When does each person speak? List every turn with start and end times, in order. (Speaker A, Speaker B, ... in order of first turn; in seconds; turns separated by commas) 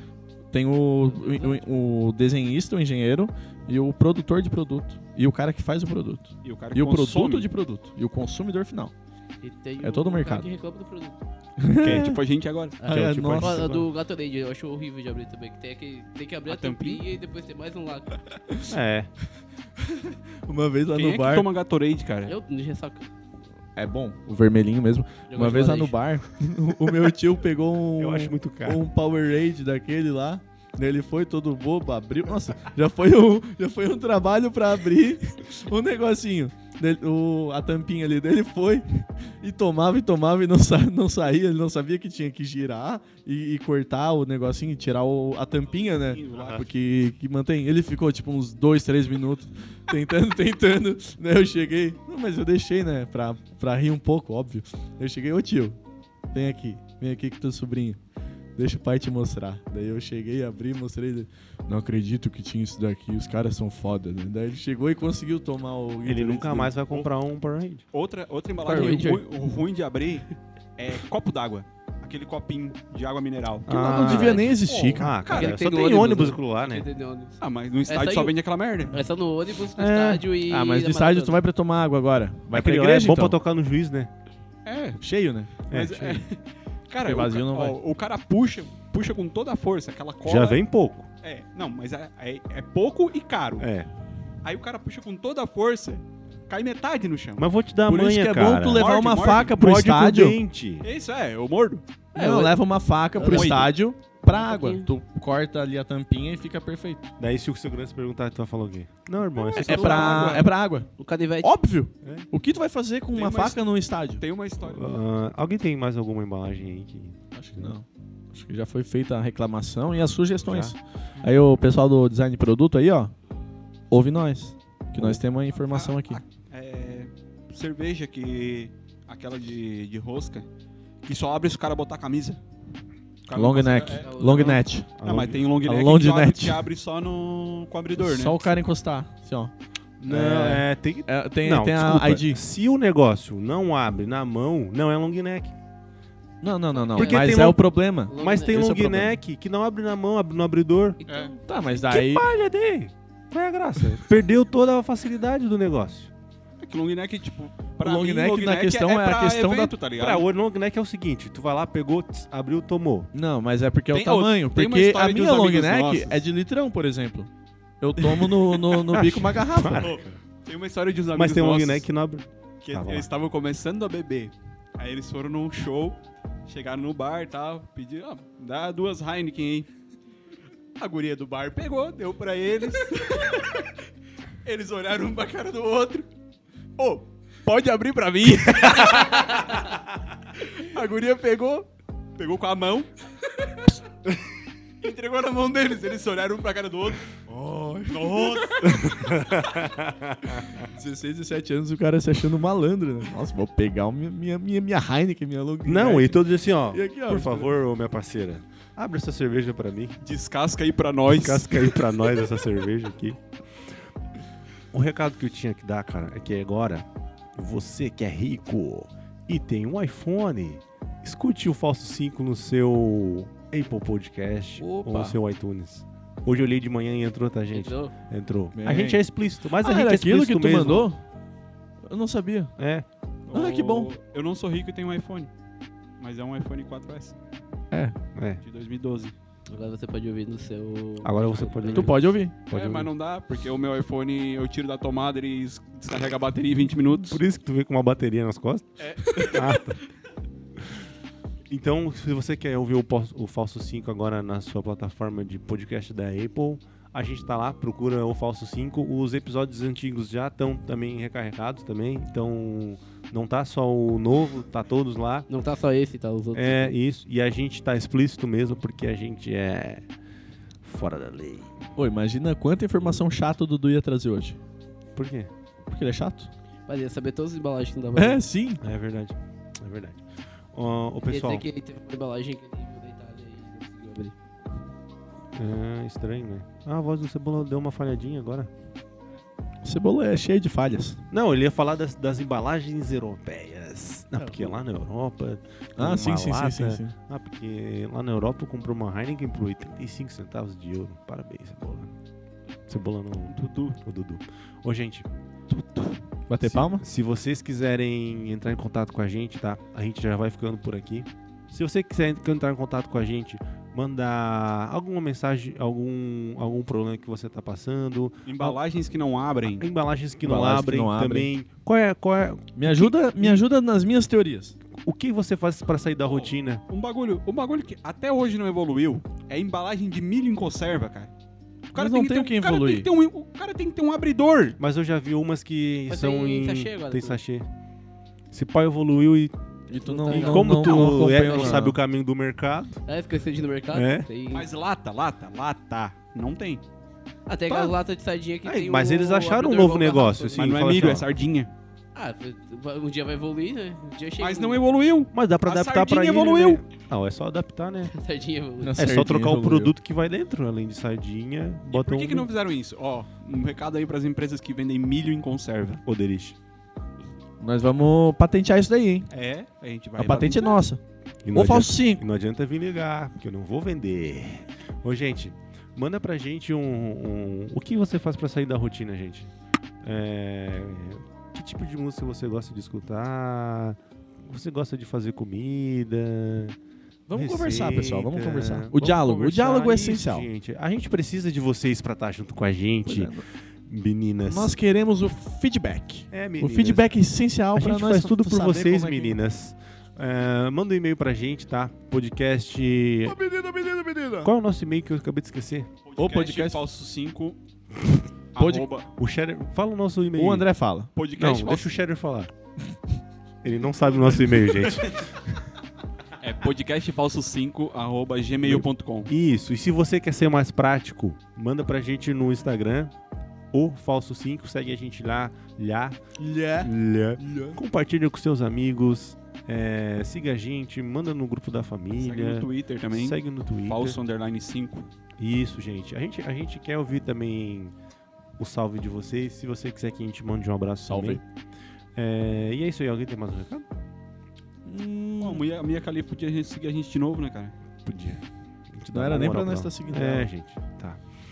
Speaker A: 0.5-8.9, Speaker B: 1.1-1.7, Speaker C: 6.4-7.5, Speaker B: 9.4-11.2, Speaker A: 9.8-10.5, Speaker A: 11.6-12.2, Speaker C: 11.8-12.8, Speaker B: 12.8-18.2, Speaker A: 12.9-13.7, Speaker D: 12.9-13.9, Speaker C: 16.5-17.1, Speaker A: 18.3-18.8, Speaker D: 18.7-19.1, Speaker A: 19.8-21.5, Speaker C: 20.9-22.4, Speaker B: 22.3-23.1, Speaker A: 23.8-55.8, Speaker B: 25.3-25.9, Speaker D: 28.0-28.8, Speaker C: 45.7-46.6, Speaker D: 46.3-46.7, Speaker A: 56.3-58.0, Speaker A: 58.6-66.8, Speaker D: 66.0-67.8, Speaker C: 67.9-75.6, Speaker A: 68.6-69.2, Speaker B: 68.7-69.2, Speaker D: 73.7-76.9, Speaker A: 73.7-75.1, Speaker B: 75.3-78.3, Speaker C: 77.4-79.0, Speaker B: 78.9-81.4, Speaker D: 79.8-80.2, Speaker A: 80.4-83.4, Speaker D: 82.5-84.1, Speaker C: 84.6-85.0, Speaker A: 85.0-85.5, Speaker D: 85.7-86.2, Speaker C: 85.7-90.6, Speaker A: 87.0-87.8, Speaker D: 90.2-91.1, Speaker C: 91.2-93.7, Speaker D: 93.6-93.9, Speaker C: 94.4-97.4, Speaker D: 97.4-100.9, Speaker A: 97.9-100.4, Speaker C: 98.7-99.5, Speaker C: 100.8-101.8, Speaker B: 102.1-102.6, Speaker A: 102.1-107.1, Speaker B: 103.2-103.7, Speaker C: 103.2-103.7, Speaker B: 104.3-104.9, Speaker D: 107.2-110.4, Speaker C: 109.4-110.5, Speaker A: 109.6-110.9, Speaker B: 111.0-111.5, Speaker A: 111.4-114.2, Speaker C: 113.1-113.6, Speaker C: 114.2-114.9, Speaker D: 114.6-117.8, Speaker A: 117.3-123.1, Speaker D: 120.5-120.7, Speaker A: 123.9-126.2, Speaker D: 125.0-125.2, Speaker C: 125.7-130.5, Speaker C: 131.0-132.4, Speaker C: 133.3-138.5, Speaker A: 133.3-134.9, Speaker B: 133.9-134.6, Speaker D: 135.0-135.4, Speaker A: 135.6-136.7, Speaker A: 138.0-139.5, Speaker D: 140.0-145.6, Speaker A: 140.1-142.4, Speaker A: 146.4-149.2, Speaker B: 146.9-147.5, Speaker D: 147.0-147.6, Speaker B: 148.1-148.6, Speaker D: 148.1-151.0, Speaker B: 151.0-151.7, Speaker C: 151.1-151.3, Speaker A: 151.4-152.2, Speaker D: 151.7-156.1, Speaker C: 156.6-160.2, Speaker A: 157.8-159.8, Speaker D: 160.0-163.1, Speaker A: 163.1-167.3, Speaker C: 163.9-166.2, Speaker A: 167.8-169.9, Speaker C: 168.1-169.0, Speaker D: 168.9-170.2, Speaker C: 169.7-171.8, Speaker D: 171.1-173.1, Speaker C: 172.6-179.7, Speaker C: 180.8-183.8, Speaker C: 184.4-186.1, Speaker C: 186.8-193.7, Speaker C: 194.8-197.2, Speaker A: 197.3-198.6, Speaker C: 197.9-198.8, Speaker D: 198.6-200.7, Speaker A: 200.5-207.5, Speaker D: 205.6-210.0, Speaker C: 210.0-211.9, Speaker D: 211.1-213.2, Speaker D: 214.7-230.9, Speaker A: 224.6-225.2, Speaker B: 227.5-227.9, Speaker A: 228.5-231.0, Speaker A: 231.9-232.5, Speaker D: 232.6-232.8, Speaker C: 233.3-235.3, Speaker A: 233.3-233.9, Speaker C: 236.0-237.2, Speaker D: 238.1-238.4, Speaker C: 238.4-239.2, Speaker B: 239.5-241.9, Speaker D: 241.0-242.9, Speaker A: 241.7-242.4, Speaker C: 242.5-247.2, Speaker D: 247.0-249.8, Speaker C: 248.8-249.7, Speaker D: 251.5-265.3, Speaker B: 265.3-266.8, Speaker D: 266.3-269.9, Speaker D: 270.6-271.6, Speaker A: 271.8-274.4, Speaker D: 274.9-275.3, Speaker A: 275.7-276.3, Speaker B: 276.7-278.2, Speaker A: 278.0-278.6, Speaker D: 278.6-281.5, Speaker B: 281.0-284.1, Speaker D: 285.3-288.5, Speaker A: 289.6-291.0, Speaker D: 291.1-301.9, Speaker A: 294.2-294.6, Speaker A: 295.8-296.9, Speaker D: 302.7-305.1, Speaker C: 303.3-303.8, Speaker C: 305.5-306.0, Speaker A: 306.3-306.8, Speaker D: 306.4-318.6, Speaker C: 318.3-319.6, Speaker D: 319.4-323.4, Speaker A: 320.2-321.3, Speaker A: 322.6-324.6, Speaker D: 324.8-326.6, Speaker C: 326.0-331.1, Speaker A: 331.7-332.9, Speaker C: 331.8-334.6, Speaker D: 334.6-337.5, Speaker B: 335.9-337.2, Speaker D: 338.3-339.3, Speaker A: 339.7-341.8, Speaker B: 339.8-341.7, Speaker D: 340.1-342.8, Speaker B: 342.9-344.5, Speaker D: 343.7-344.1, Speaker C: 344.3-346.6, Speaker B: 347.3-350.6, Speaker D: 347.5-347.8, Speaker D: 348.4-351.1, Speaker C: 350.4-351.5, Speaker B: 351.9-354.6, Speaker C: 354.2-356.6, Speaker D: 355.1-357.9, Speaker B: 357.9-358.9, Speaker A: 358.6-359.7, Speaker D: 358.8-362.3, Speaker C: 361.7-365.8, Speaker D: 365.9-366.4, Speaker A: 367.4-369.1, Speaker C: 369.1-370.6, Speaker A: 370.0-370.8, Speaker D: 371.3-379.3, Speaker A: 371.3-372.0, Speaker D: 379.8-386.6, Speaker A: 387.1-390.3, Speaker D: 387.1-393.1, Speaker A: 392.9-393.2, Speaker D: 393.7-394.6, Speaker A: 394.3-399.2, Speaker D: 396.1-396.9, Speaker D: 397.6-403.2, Speaker A: 403.1-404.3, Speaker D: 404.2-405.7, Speaker C: 405.9-407.4, Speaker A: 406.0-406.6, Speaker C: 408.4-408.9, Speaker A: 408.4-408.7, Speaker D: 409.0-410.5, Speaker A: 410.2-410.9, Speaker C: 410.9-411.7, Speaker D: 411.2-412.3, Speaker D: 413.4-415.4, Speaker C: 416.2-419.1, Speaker D: 418.4-422.9, Speaker D: 423.5-426.0, Speaker A: 426.2-427.6, Speaker D: 426.6-434.0, Speaker C: 432.0-434.9, Speaker D: 435.2-437.8, Speaker D: 438.4-441.2, Speaker A: 440.9-441.2, Speaker D: 442.0-443.7, Speaker A: 444.6-445.4, Speaker C: 445.2-447.6, Speaker D: 447.8-451.0, Speaker A: 448.9-450.3